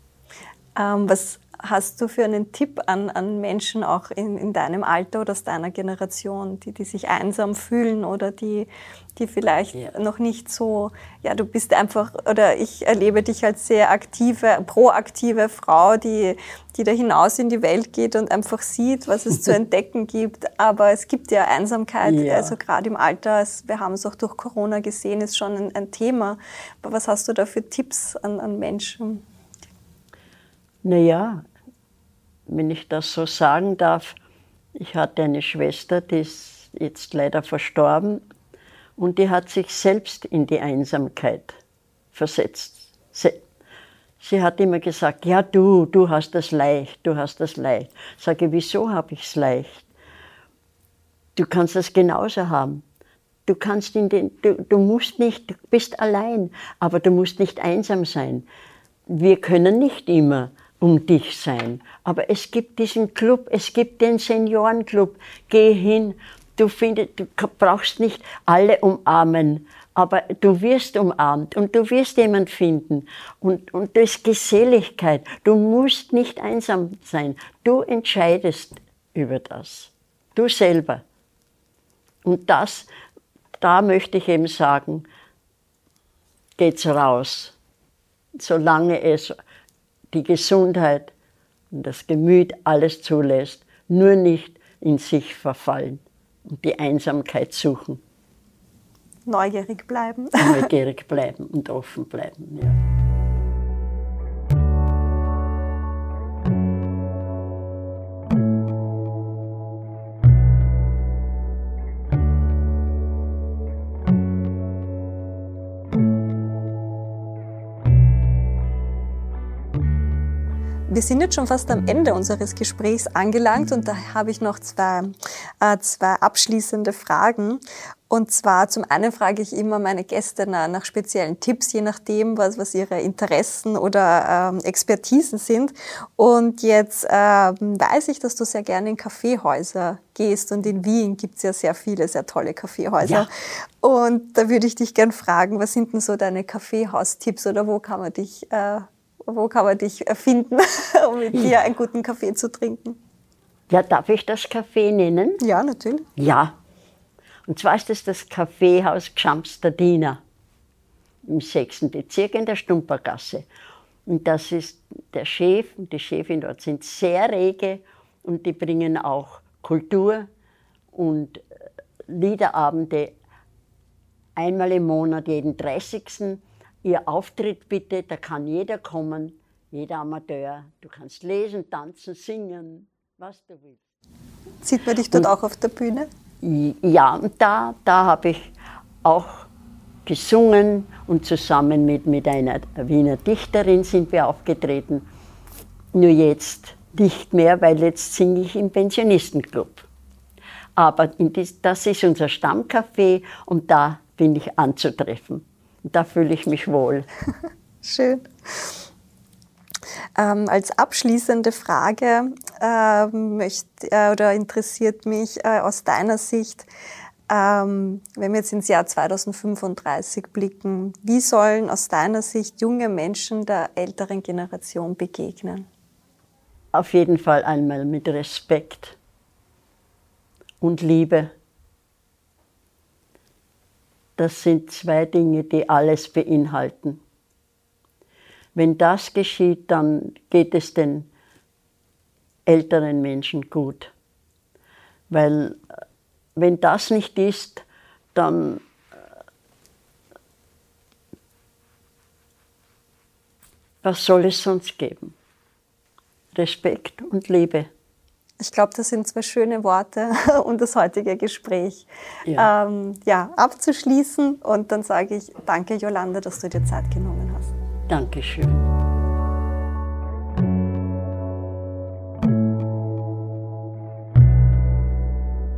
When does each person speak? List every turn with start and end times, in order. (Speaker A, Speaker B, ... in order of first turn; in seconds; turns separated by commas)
Speaker A: 0.8-29.2, Speaker B: 22.0-22.5, Speaker B: 30.8-31.4, Speaker B: 32.5-34.2, Speaker B: 34.8-38.2, Speaker B: 39.0-41.6, Speaker B: 42.1-43.4, Speaker B: 44.2-49.9, Speaker B: 51.4-52.8, Speaker B: 53.5-58.5, Speaker B: 59.1-81.0, Speaker B: 82.2-82.9, Speaker B: 83.6-85.1, Speaker B: 86.6-87.5, Speaker B: 88.4-89.3, Speaker B: 90.1-91.1, Speaker B: 91.7-98.0, Speaker A: 99.3-100.7, Speaker B: 100.4-102.8, Speaker A: 120.9-143.3, Speaker B: 143.0-143.3, Speaker A: 143.8-153.0, Speaker B: 153.7-155.4, Speaker A: 155.4-156.1, Speaker B: 156.2-156.6, Speaker B: 157.5-160.2, Speaker B: 161.2-163.5, Speaker B: 164.1-170.3, Speaker B: 170.9-171.4, Speaker B: 172.1-173.2, Speaker B: 174.4-183.8, Speaker A: 184.6-186.1, Speaker B: 186.4-188.5, Speaker B: 189.0-189.5, Speaker B: 190.1-195.1, Speaker B: 195.9-199.9, Speaker B: 200.8-207.1, Speaker A: 207.8-208.7, Speaker A: 210.2-216.7, Speaker A: 217.3-225.7, Speaker B: 226.7-229.0, Speaker B: 230.6-231.3, Speaker B: 234.2-237.0, Speaker B: 238.6-241.1, Speaker B: 242.5-243.9, Speaker B: 245.1-245.6, Speaker B: 246.4-248.6, Speaker B: 253.8-255.2, Speaker B: 256.3-257.7, Speaker A: 258.4-267.5, Speaker B: 267.9-268.7